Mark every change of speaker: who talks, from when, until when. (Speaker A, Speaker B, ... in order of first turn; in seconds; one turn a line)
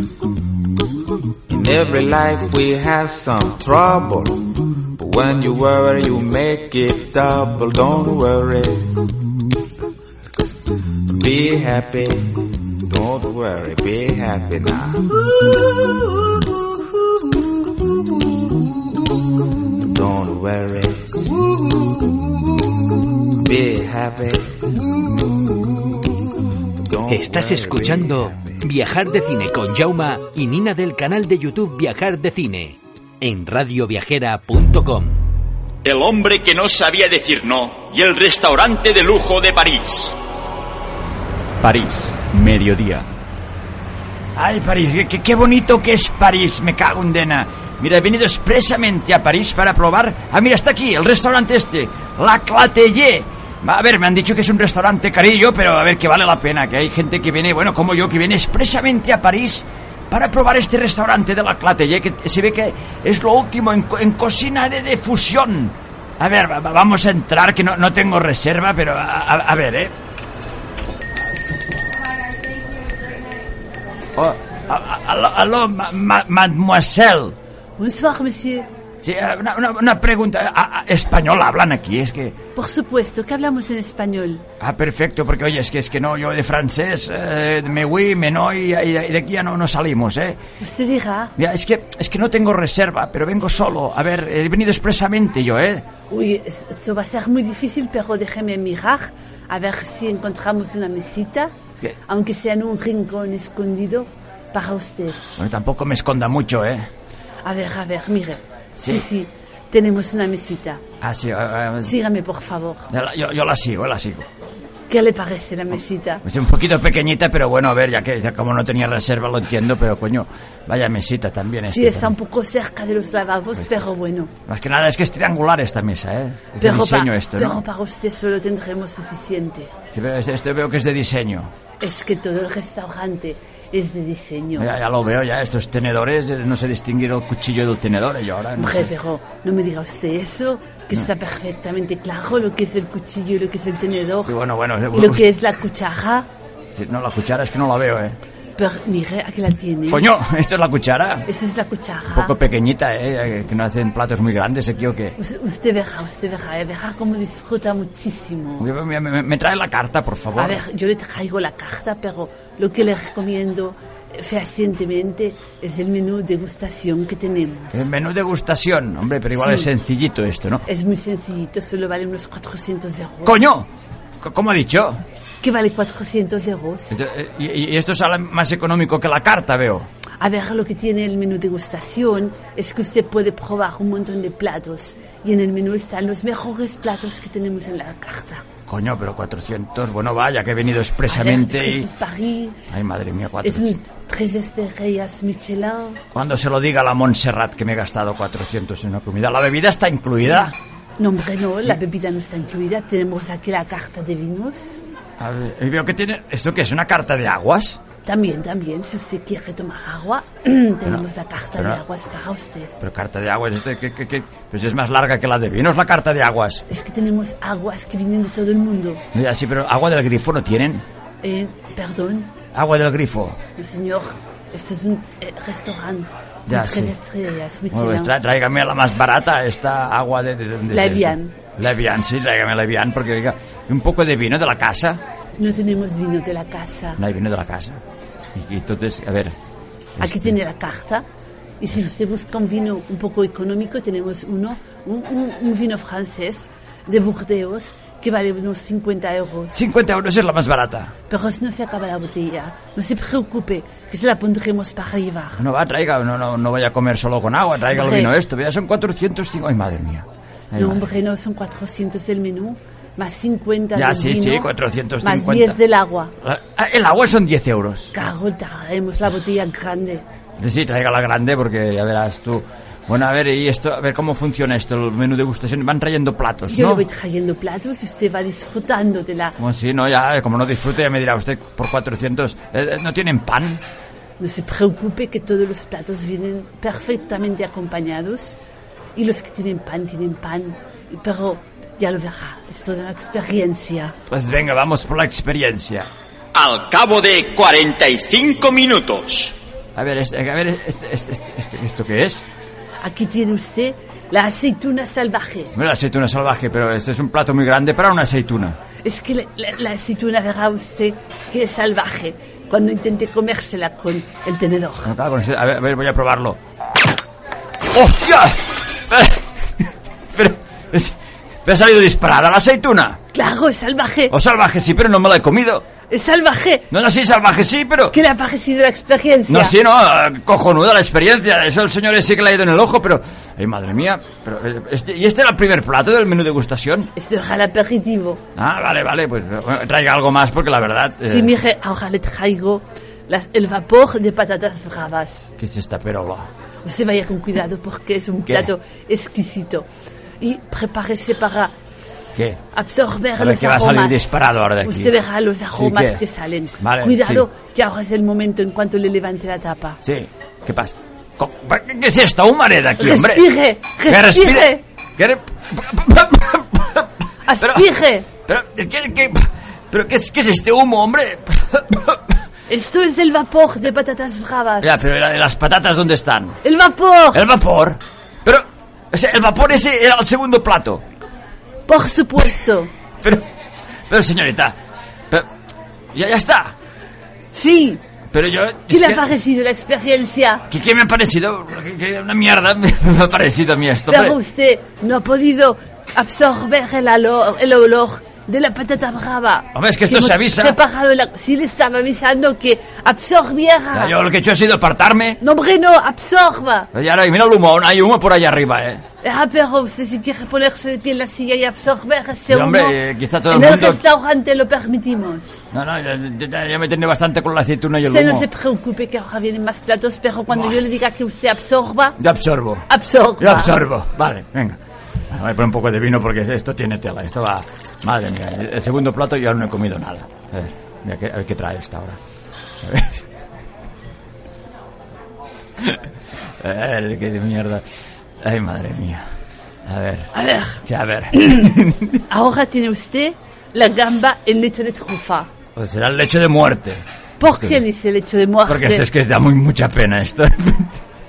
Speaker A: 1.5-9.1
Speaker A: 11.1-16.4
Speaker A: 17.9-18.4
Speaker A: 19.8-22.6
Speaker A: 23.4-26.2
Speaker A: 26.8-28.7
Speaker B: 27.1-35.2
Speaker C: 35.9-40.1
Speaker C: 41.6-43.1
Speaker D: 44.4-69.9
Speaker D: 74.2-77.3
Speaker E: 77.8-78.7
Speaker D: 79.0-82.4
Speaker E: 82.6-84.4
Speaker D: 84.6-90.4
Speaker E: 90.6-91.3
Speaker D: 91.4-95.8
Speaker E: 96.1-101.5
Speaker E: 102.1-105.2
Speaker D: 105.4-106.9
Speaker E: 107.4-110.8
Speaker D: 111.0-111.9
Speaker E: 111.8-112.9
Speaker D: 112.9-114.3
Speaker E: 114.9-116.2
Speaker D: 116.2-122.1
Speaker E: 121.7-124.3
Speaker D: 124.5-127.6
Speaker E: 126.6-129.7
Speaker D: 129.9-131.5
Speaker E: 131.8-134.7
Speaker D: 134.6-138.9
Speaker E: 138.6-144.3
Speaker D: 144.2-145.2
Speaker E: 144.9-146.3
Speaker D: 146.7-148.2
Speaker E: 148.6-150.1
Speaker D: 149.9-151.3
Speaker E: 151.3-152.3
Speaker D: 152.1-155.2
Speaker E: 155.2-158.7
Speaker D: 158.6-160.6
Speaker E: 160.4-167.9
Speaker D: 167.7-170.7
Speaker E: 169.3-169.7
Speaker E: 170.7-173.4
Speaker D: 173.3-173.7
Speaker D: 174.2-175.0
Speaker E: 175.4-176.9
Speaker D: 176.9-179.9
Speaker E: 180.2-188.4
Speaker D: 188.7-191.9
Speaker E: 191.1-192.8
Speaker D: 192.7-193.8
Speaker E: 193.4-196.0
Speaker D: 196.1-200.6
Speaker E: 201.0-204.8
Speaker D: 205.2-207.8
Speaker E: 208.1-212.8
Speaker D: 212.8-216.6
Speaker E: 216.7-219.0
Speaker D: 219.1-220.8
Speaker E: 221.2-222.3
Speaker D: 222.5-223.4
Speaker E: 223.6-228.1
Speaker D: 226.5-226.9
Speaker D: 227.7-235.0
Speaker E: 230.7-231.3
Speaker E: 235.4-237.0
Speaker D: 237.0-237.8
Speaker D: 238.3-239.3
Speaker D: 240.0-240.4
Speaker E: 240.0-241.1
Speaker E: 241.6-249.6
Speaker D: 249.5-250.9
Speaker E: 251.1-255.4
Speaker D: 255.4-260.9
Speaker E: 257.7-258.1
Speaker E: 260.6-264.5
Speaker D: 263.8-265.6
Speaker E: 265.0-266.1
Speaker D: 266.2-267.9
Speaker E: 267.9-270.0
Speaker D: 270.4-276.8
Speaker E: 276.5-279.4
Speaker D: 279.4-283.6
Speaker E: 284.2-288.4
Speaker E: 289.0-293.9
Speaker D: 294.1-295.9
Speaker C: 296.3-299.4
Speaker D: 299.8-302.2
Speaker E: 302.8-305.5
Speaker D: 305.6-308.6
Speaker E: 308.8-314.9
Speaker D: 314.9-316.4
Speaker D: 317.7-320.9
Speaker D: 321.4-323.0
Speaker E: 323.1-324.1
Speaker D: 324.1-325.7
Speaker E: 325.9-326.7
Speaker D: 326.7-328.0
Speaker E: 327.9-329.6
Speaker D: 329.3-336.9
Speaker E: 337.0-338.2
Speaker D: 338.4-341.3
Speaker E: 341.1-345.3
Speaker D: 345.4-346.3
Speaker E: 346.6-349.7
Speaker E: 350.2-351.5
Speaker E: 352.5-359.8
Speaker D: 353.2-354.9
Speaker D: 355.5-356.0
Speaker D: 356.6-357.3
Speaker D: 359.9-363.3
Speaker E: 362.8-364.6
Speaker D: 363.9-366.9
Speaker E: 367.3-368.1
Speaker D: 367.4-367.7
Speaker D: 368.3-372.2
Speaker E: 372.5-374.9
Speaker D: 374.6-376.4
Speaker E: 376.4-377.2
Speaker D: 377.1-380.8
Speaker E: 381.7-382.7
Speaker D: 383.9-384.6
Speaker D: 385.9-386.5
Speaker E: 387.3-387.8
Speaker D: 388.1-389.0
Speaker E: 388.7-390.4
Speaker D: 390.5-394.2
Speaker E: 393.9-403.9
Speaker D: 399.5-400.6
Speaker D: 403.7-405.2
Speaker E: 405.2-406.7
Speaker D: 406.7-408.8
Speaker E: 409.0-412.8
Speaker D: 412.3-413.8
Speaker E: 413.3-415.4
Speaker D: 415.5-418.3
Speaker E: 417.9-422.0
Speaker D: 422.0-422.7
Speaker E: 422.7-423.5
Speaker D: 423.2-424.6
Speaker D: 425.1-432.0
Speaker D: 432.6-433.1
Speaker D: 436.4-437.6
Speaker D: 438.2-439.0
Speaker D: 439.7-440.1
Speaker E: 440.1-440.6
Speaker D: 440.6-442.0
Speaker E: 441.1-441.5
Speaker E: 442.1-445.3
Speaker D: 445.6-447.6
Speaker E: 447.2-448.9
Speaker D: 448.5-450.8